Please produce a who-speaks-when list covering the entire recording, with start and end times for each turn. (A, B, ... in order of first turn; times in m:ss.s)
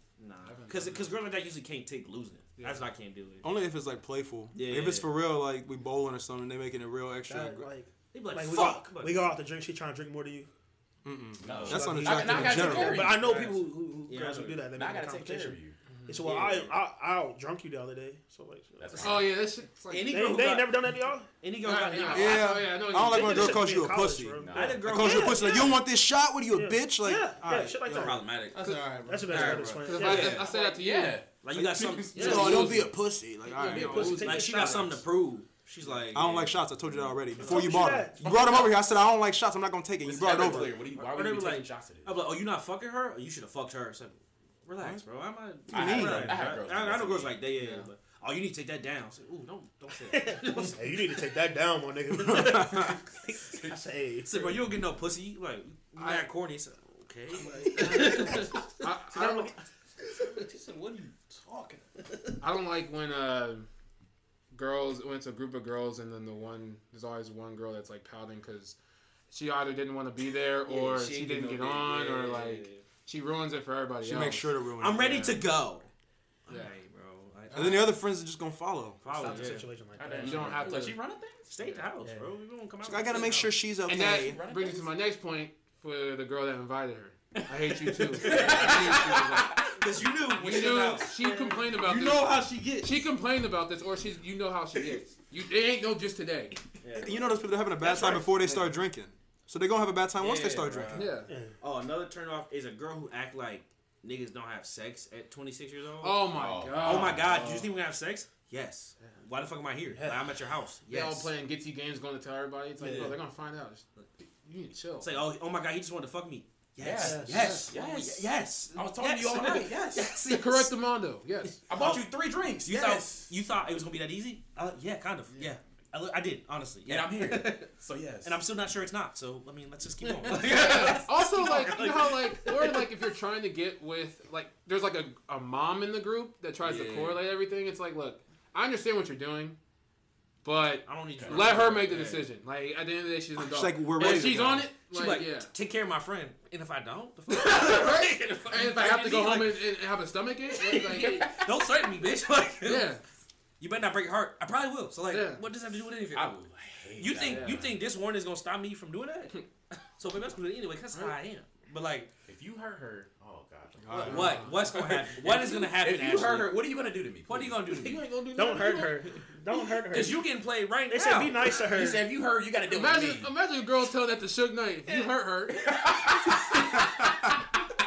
0:00.2-0:03.5 A
0:00.4-0:01.1 B
0:02.6-0:02.8 B
0:03.4-0:07.7 C
0:04.5-0:05.1 A
0:07.3-0:10.5 D
0:08.1-0:09.3 A
0:11.0-0:13.1 C
0:11.4-0:13.4 E
0:11.4-0:14.6 A
0:11.5-0:19.3 D
0:14.7-0:15.8 E
0:15.9-0:16.2 B
0:16.2-0:16.8 A
0:18.8-0:19.4 E
0:19.0-0:20.1 B
0:19.9-0:20.8 A
0:20.1-0:21.3 D
0:21.4-0:22.6 A
0:21.6-0:23.6 B
0:22.1-0:28.2 C
0:22.9-0:25.9 D
0:24.4-0:24.9 E
0:24.5-0:25.7 A
0:26.5-0:28.2 D
0:27.9-0:28.5 A
0:28.2-0:28.8 E
0:28.5-0:29.7 F
0:28.9-0:30.6 D
0:29.3-0:30.5 A
0:29.3-0:32.8 E
0:29.8-0:31.2 B
0:31.4-0:32.7 A
0:32.2-0:33.4 F
0:32.2-0:34.3 C
0:32.2-0:32.9 B
0:33.6-0:35.0 D
0:33.6-0:34.8 B
0:33.8-0:36.6 A
0:35.8-0:37.8 E
0:36.1-0:40.8 C
0:37.4-0:38.2 D
0:40.0-0:42.2 E
0:40.2-0:51.2 A
0:44.8-0:45.0 C
0:45.7-0:46.4 C
0:45.7-0:47.4 E
0:47.6-0:47.9 B
0:50.1-0:54.7 D
0:52.2-0:53.0 C
0:53.4-0:53.8 E
0:54.2-0:58.7 A
0:57.4-0:59.6 D
0:58.8-0:59.5 B
1:00.3-1:01.8 A
1:02.4-1:03.7 B
1:04.5-1:08.8 B
1:09.3-1:15.4 B
1:10.7-1:12.8 A
1:14.0-1:15.2 C
1:14.8-1:15.9 A
1:16.5-1:18.0 A
1:17.5-1:19.4 C
1:19.0-1:19.7 A
1:19.2-1:20.7 D
1:19.9-1:21.5 E
1:20.1-1:21.0 B
1:21.5-1:23.6 A
1:22.0-1:22.3 D
1:22.8-1:24.4 C
1:23.8-1:29.6 B
1:23.9-1:24.9 E
1:27.3-1:29.8 E
1:28.3-1:28.6 A
1:29.7-1:31.1 A
1:30.3-1:36.6 B
1:31.2-1:31.6 D
1:31.7-1:33.0 F
1:36.8-1:37.4 A
1:37.0-1:41.2 C
1:38.1-1:38.8 B
1:40.2-1:51.3 A
1:40.9-1:41.3 B
1:41.3-1:41.6 D
1:46.0-1:47.4 B
1:46.3-1:47.4 E
1:50.9-1:53.8 B
1:52.8-1:53.1 D
1:54.4-1:55.2 B
1:55.0-2:00.7 A
1:56.8-2:00.1 E
1:57.0-1:57.6 D
1:57.4-1:57.7 B
2:00.2-2:01.6 B
2:01.7-2:03.3 E
2:01.7-2:02.0 A
2:02.6-2:12.9 A
2:06.8-2:08.4 E
2:10.4-2:19.6 B
2:16.6-2:17.2 A
2:20.4-2:25.5 B
2:20.8-2:22.3 A
2:21.2-2:21.7 E
2:23.4-2:24.7 C
2:24.0-2:29.6 A
2:27.3-2:31.3 B
2:30.6-2:32.9 A
2:32.6-2:33.0 B
2:33.6-2:36.4 A
2:35.1-2:35.4 B
2:36.1-2:37.8 E
2:37.0-2:39.4 A
2:37.2-2:37.6 B
2:40.0-2:42.1 A
2:42.3-2:48.8 E
2:43.8-2:44.5 C
2:44.0-2:46.6 A
2:44.0-2:44.6 B
2:47.2-2:48.0 A
2:48.3-2:50.2 D
2:49.9-2:51.6 A
2:50.9-2:52.1 D
2:51.5-2:53.3 E
2:52.6-2:55.8 B
2:55.5-2:56.9 E